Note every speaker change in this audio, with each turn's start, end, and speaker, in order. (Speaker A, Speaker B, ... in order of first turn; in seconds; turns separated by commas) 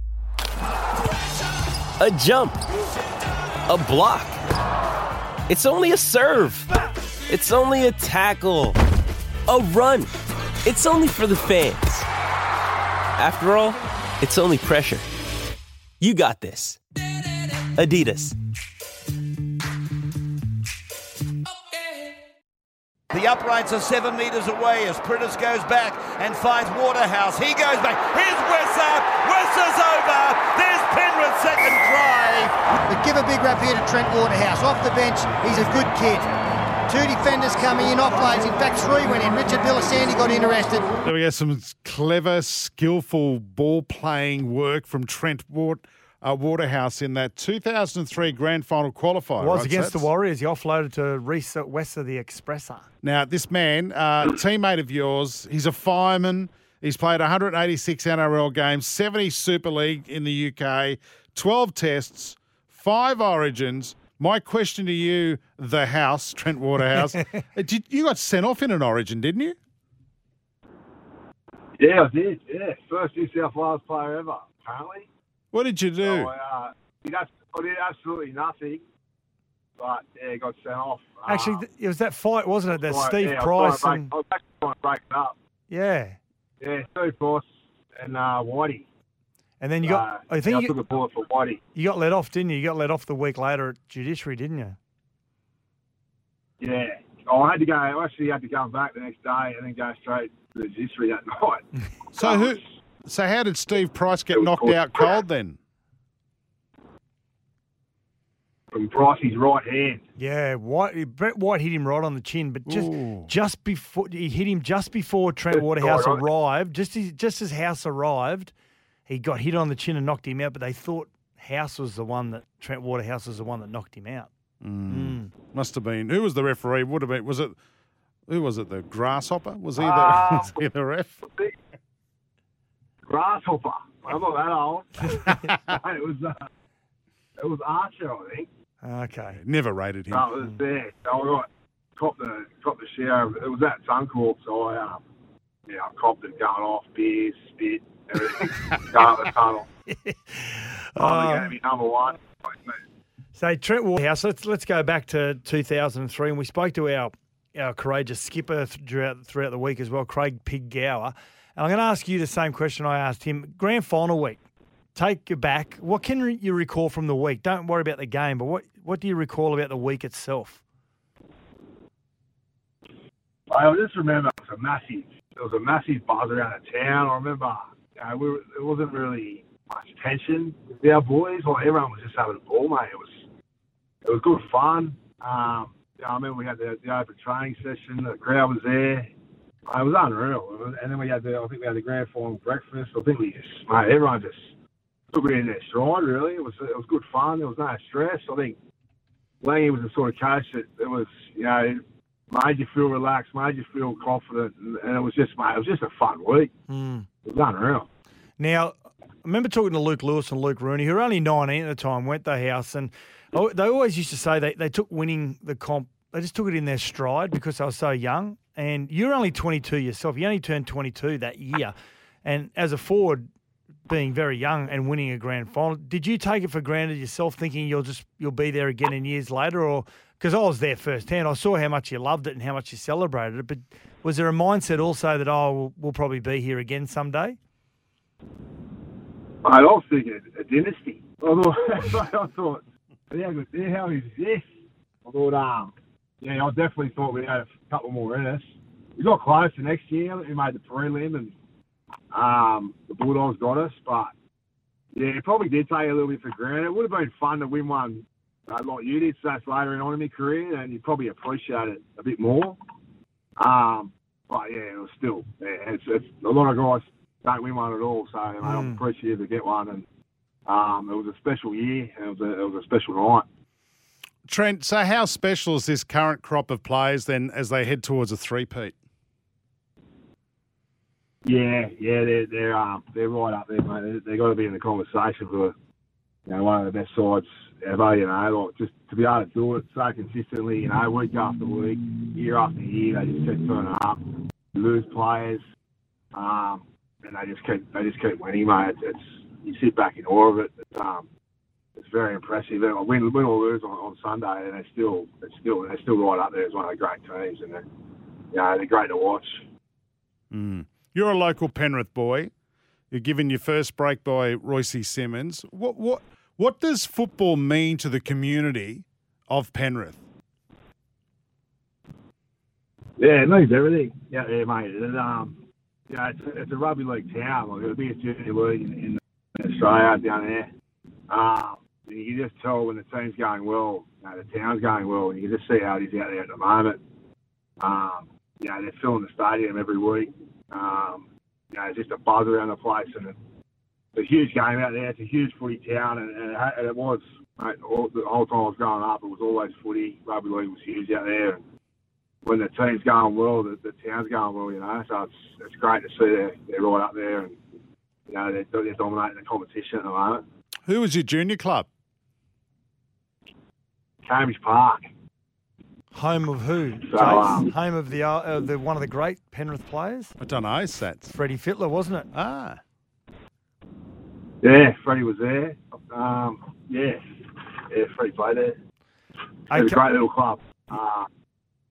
Speaker A: 2.0-2.6, Speaker A: 3.7-4.4, Speaker A: 5.5-6.6, Speaker A: 7.3-8.7, Speaker A: 9.5-10.1, Speaker A: 10.6-12.0, Speaker A: 13.2-15.0, Speaker A: 16.0-16.8, Speaker A: 17.8-18.3, Speaker B: 23.1-32.5, Speaker C: 32.9-36.3, Speaker C: 36.9-40.9, Speaker D: 41.0-50.1, Speaker E: 49.4-52.9, Speaker D: 53.0-69.5, Speaker E: 66.9-67.2, Speaker F: 71.8-75.1, Speaker D: 75.5-76.3, Speaker F: 76.0-78.8, Speaker F: 79.8-81.6, Speaker E: 81.2-84.1, Speaker F: 82.8-85.3, Speaker E: 85.7-86.2, Speaker F: 86.6-88.9, Speaker E: 89.6-90.7, Speaker F: 89.8-91.6, Speaker E: 91.7-94.8, Speaker F: 96.6-102.7, Speaker D: 102.1-105.6, Speaker F: 104.3-105.0, Speaker F: 108.7-110.0, Speaker E: 110.2-118.5, Speaker D: 112.7-113.3, Speaker F: 115.5-116.2, Speaker E: 119.1-124.3, Speaker D: 124.6-127.5, Speaker E: 124.9-125.3, Speaker D: 128.3-131.2, Speaker F: 129.8-130.6, Speaker F: 131.3-131.5, Speaker F: 133.1-136.4, Speaker F: 137.4-138.5, Speaker E: 138.8-139.4, Speaker D: 139.3-140.3, Speaker F: 140.1-145.0, Speaker F: 145.7-149.7, Speaker E: 149.9-151.5, Speaker F: 151.0-152.7, Speaker E: 153.3-164.4, Speaker E: 164.9-170.6, Speaker F: 173.5-183.3, Speaker F: 184.0-189.1, Speaker F: 189.7-194.6, Speaker F: 195.1-198.6, Speaker F: 199.4-206.5, Speaker E: 206.7-207.1, Speaker F: 207.2-207.9, Speaker E: 208.4-223.3, Speaker E: 223.9-237.4, Speaker F: 239.4-251.3, Speaker F: 252.1-254.1, Speaker F: 254.9-262.6, Speaker F: 263.4-269.9, Speaker E: 268.4-268.8, Speaker F: 270.4-273.2, Speaker D: 274.2-278.7, Speaker F: 281.2-285.5, Speaker F: 286.3-295.4, Speaker F: 296.1-301.1, Speaker F: 301.8-307.6, Speaker F: 308.3-309.5, Speaker D: 310.3-312.3, Speaker D: 312.9-320.0, Speaker F: 323.0-330.5, Speaker F: 331.1-336.8, Speaker F: 337.6-343.2, Speaker F: 343.9-351.4, Speaker F: 352.2-357.4, Speaker F: 358.1-360.2, Speaker D: 360.7-361.7, Speaker F: 364.0-364.9, Speaker E: 365.9-370.1, Speaker F: 366.9-367.5, Speaker D: 370.2-371.1, Speaker E: 371.1-372.1, Speaker D: 372.1-372.6, Speaker F: 374.4-377.0, Speaker F: 377.7-378.6, Speaker E: 379.5-379.8, Speaker F: 379.5-381.1